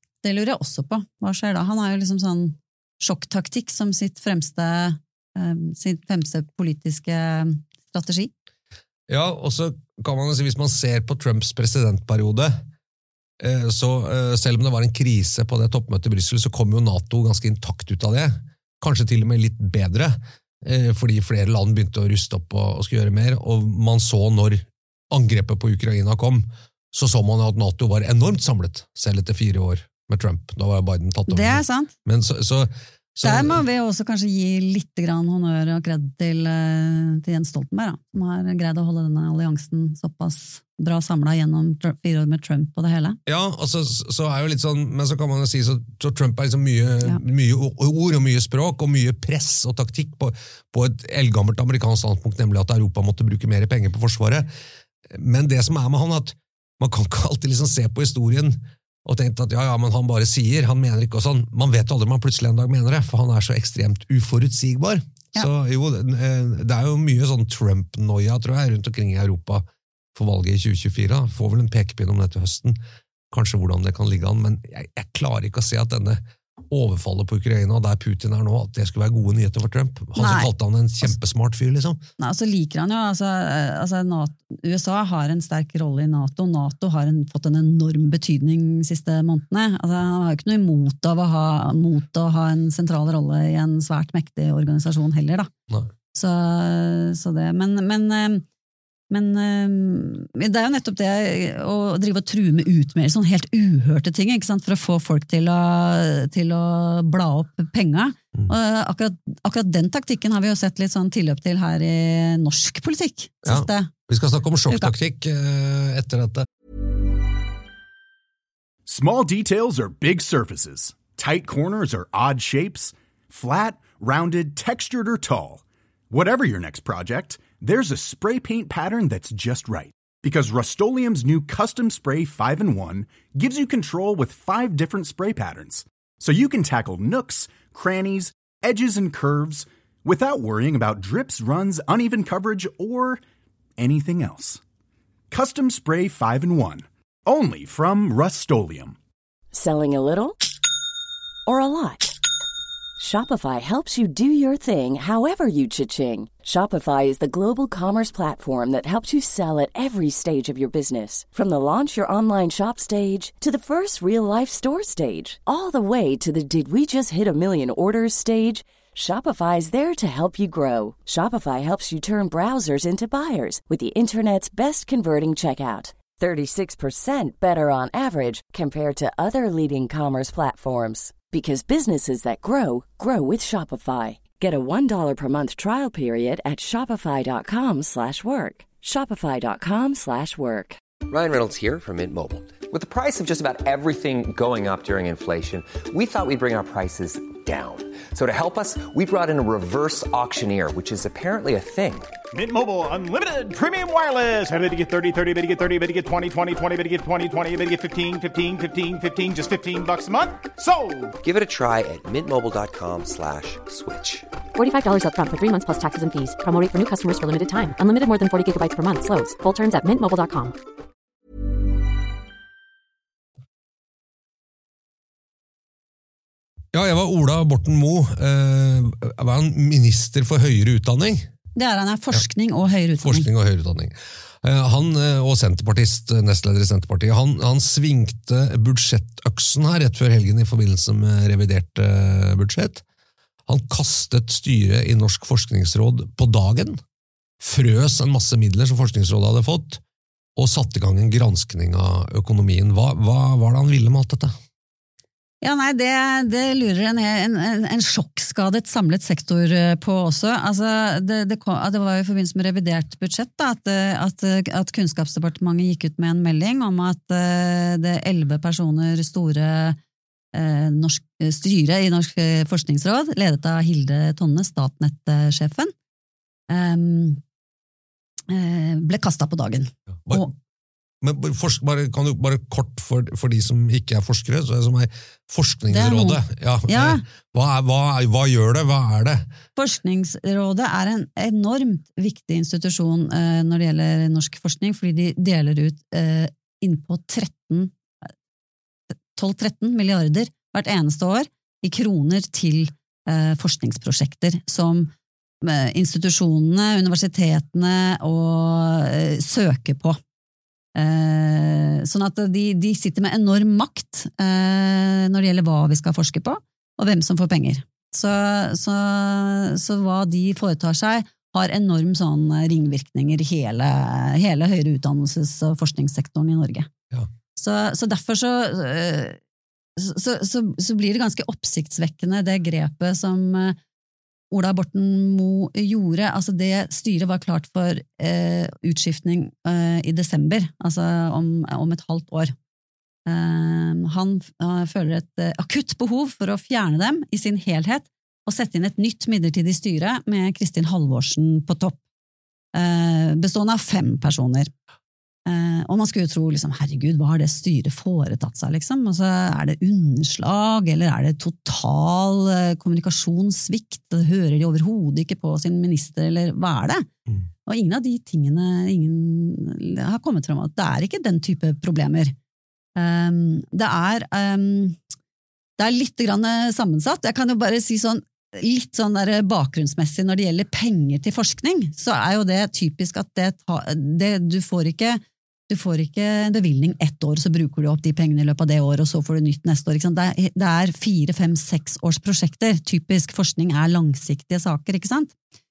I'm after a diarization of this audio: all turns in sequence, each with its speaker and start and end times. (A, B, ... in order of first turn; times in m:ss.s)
0:00.2-0:08.3 A
0:09.1-0:12.6 B
0:13.4-0:33.6 B
0:31.3-0:31.9 A
0:33.2-0:43.2 A
0:43.3-0:54.5 B
0:55.1-1:09.6 B
1:10.2-1:12.8 B
1:13.3-1:22.0 B
1:20.2-1:20.5 A
1:22.2-1:35.5 A
1:36.1-1:38.4 A
1:39.1-1:53.9 A
1:53.5-1:56.5 B
1:58.9-2:23.2 C
2:23.8-2:24.6 C
2:25.3-2:29.0 C
2:29.5-2:30.4 D
2:31.5-2:32.1 D
2:33.0-3:10.8 D
3:11.1-3:22.1 E
3:22.3-3:31.1 F
3:31.2-3:34.3 E
3:34.6-3:40.6 G
3:46.7-3:51.3 B
3:51.6-3:53.3 A
3:53.0-4:02.8 B
4:03.5-4:06.8 B
4:07.4-4:09.8 B
4:10.4-4:14.3 B
4:15.4-4:29.8 A
4:30.3-4:35.7 A
4:36.5-4:37.2 A
4:38.3-4:40.3 A
4:41.0-4:49.3 B
4:45.7-4:47.0 A
4:49.6-4:57.7 A
4:59.2-5:10.0 A
5:10.8-5:26.7 A
5:27.4-5:29.2 A
5:29.8-5:33.6 A
5:34.3-5:42.3 A
5:43.1-5:51.8 A
5:52.5-5:54.5 A
5:55.3-6:06.9 A
6:07.5-6:12.2 A
6:12.8-6:14.8 A
6:15.6-6:35.1 A